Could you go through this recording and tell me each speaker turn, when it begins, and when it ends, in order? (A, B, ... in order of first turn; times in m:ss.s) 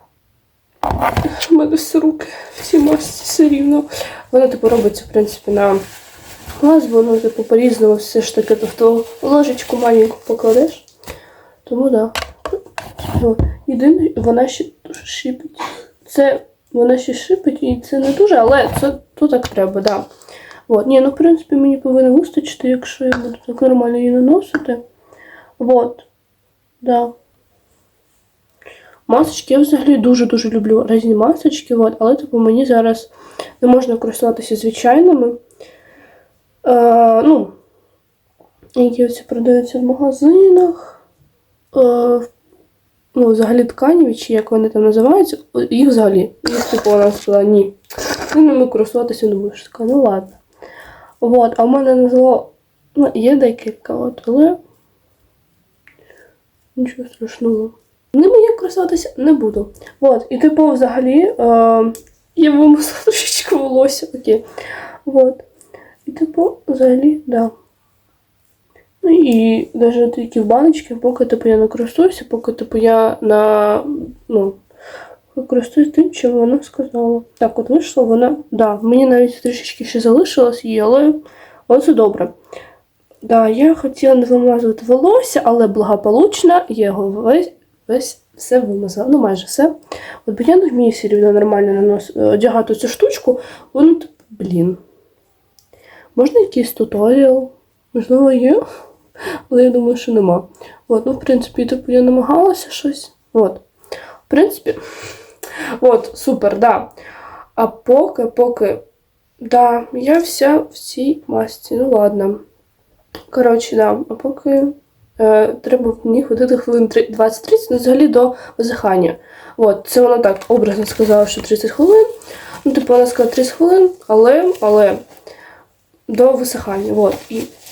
0:01.2-0:05.8 A
0:06.6-0:10.9 A
0:11.6-0:12.2 A
0:13.0-0:20.1 A
0:20.7-0:24.8 A
0:25.6-0:26.1 A
0:26.8-0:27.1 A
0:29.1-0:35.4 A
0:36.6-0:37.5 A
0:38.8-0:41.0 A
0:41.7-0:42.3 A
0:43.1-0:50.4 A
0:51.2-0:54.6 A
0:56.8-1:04.4 A
1:05.0-1:05.4 A
1:06.0-1:07.5 A
1:09.0-1:14.6 A
1:15.3-1:22.3 A
1:23.2-1:34.8 A
1:36.1-1:38.6 A
1:39.5-1:43.6 A
1:44.3-1:44.8 A
1:45.8-1:46.9 A
1:47.6-1:48.8 A
1:49.4-1:52.4 A
1:53.3-2:02.1 A
2:02.6-2:05.0 A
2:06.1-2:07.5 A